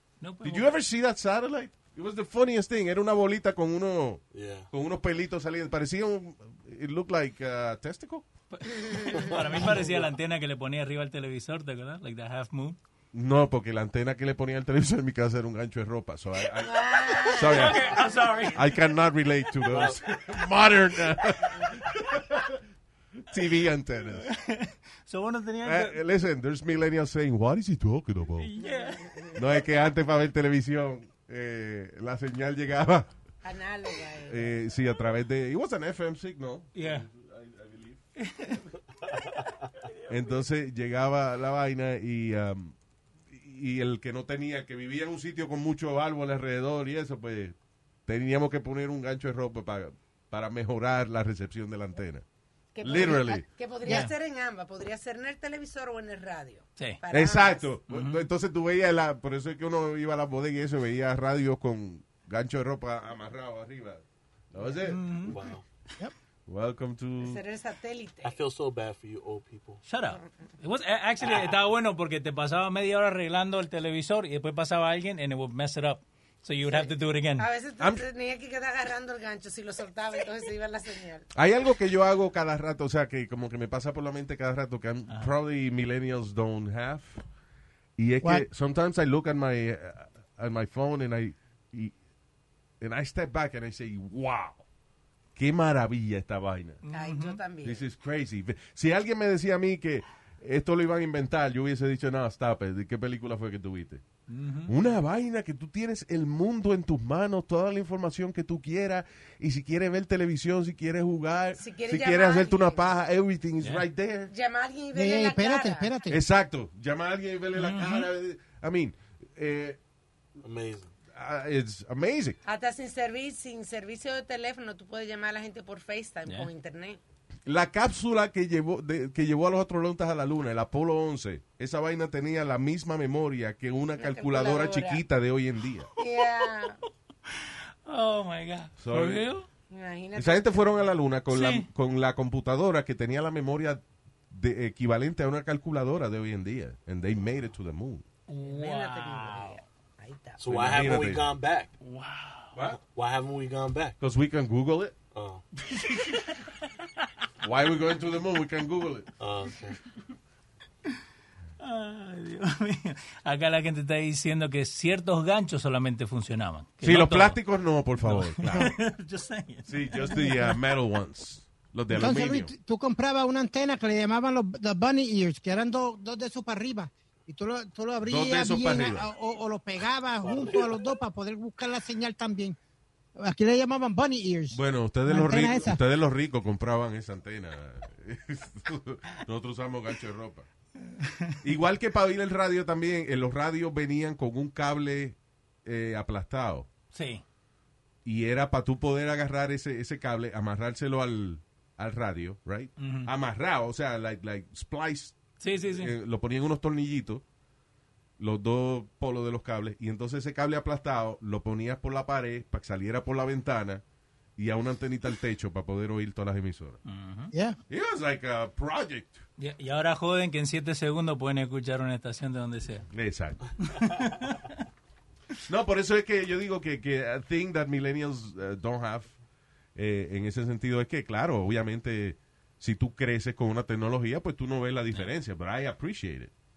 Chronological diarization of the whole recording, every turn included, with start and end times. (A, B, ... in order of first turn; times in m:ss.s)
0:00.2-0:00.7 A
0:00.4-0:08.2 B
0:04.3-0:04.7 C
0:08.5-0:12.8 A
0:08.8-0:09.2 D
0:09.6-0:10.0 C
0:13.1-0:22.6 B
0:16.6-0:18.1 D
0:17.3-0:18.7 A
0:19.7-0:20.0 C
0:23.2-0:24.3 B
0:24.2-0:26.0 A
0:25.6-0:28.5 B
0:28.4-0:29.3 A
0:29.0-0:29.4 D
0:29.3-0:33.1 B
0:33.4-0:34.5 D
0:34.2-0:38.5 B
0:36.7-0:37.1 A
0:38.2-0:38.6 A
0:40.1-0:42.7 B
0:43.3-0:47.5 B
0:48.1-0:52.2 B
0:52.7-0:57.7 D
0:52.8-0:53.4 B
0:53.8-0:54.1 E
0:53.8-0:54.1 A
0:57.1-1:05.0 B
0:57.9-0:58.3 A
1:04.8-1:05.4 A
1:05.2-1:05.6 C
1:06.5-1:07.4 B
1:07.2-1:08.4 D
1:08.2-1:09.8 C
1:09.8-1:17.5 A
1:16.6-1:21.3 D
1:17.8-1:18.0 B
1:21.3-1:27.2 B
1:28.0-1:31.9 B
1:32.8-1:34.6 B
1:35.4-1:36.8 B
1:36.8-1:37.4 A
1:36.9-1:37.8 D
1:37.6-1:44.0 B
1:44.3-1:44.7 A
1:44.6-1:54.3 B
1:51.6-1:53.0 D
1:54.3-1:55.9 D
1:54.9-1:56.2 E
1:56.1-1:59.8 B
1:57.5-1:58.1 A
2:00.4-2:00.9 C
2:01.1-2:02.4 B
2:02.4-2:07.0 D
2:07.4-2:15.9 B
2:14.0-2:15.0 D
2:16.0-2:16.8 D
2:17.8-2:19.5 A
2:18.8-2:19.3 B
2:19.7-2:20.6 D
2:20.1-2:28.0 B
2:21.3-2:21.7 A
2:28.3-2:29.6 A
2:28.4-2:30.5 D
2:30.4-2:31.7 C
2:30.5-2:31.3 B
2:31.8-2:32.5 A
2:32.5-2:32.8 B
2:32.8-2:34.0 C
2:34.0-2:34.9 B
2:35.1-2:35.4 C
2:35.7-2:36.6 A
2:37.4-2:39.1 B
2:39.2-2:39.8 C
2:41.6-2:47.4 A
2:46.8-2:48.8 B
2:48.0-2:50.6 A
2:49.6-2:52.5 B
2:51.9-3:02.6 E
2:58.0-2:59.1 B
3:00.2-3:00.7 C
3:03.2-3:05.8 E
3:04.5-3:10.5 B
3:10.9-3:11.4 A
3:11.4-3:16.7 B
3:16.9-3:17.2 A
3:18.0-3:27.2 B
3:22.8-3:23.1 A
3:25.4-3:25.9 A
3:28.2-3:33.8 B
3:34.4-3:36.8 B
3:36.8-3:37.3 A
3:37.3-3:37.6 E
3:37.7-3:39.2 B
3:39.4-3:42.9 A
3:42.9-3:43.4 B
3:43.7-3:44.6 A
3:45.5-3:49.1 B
3:49.7-3:56.3 B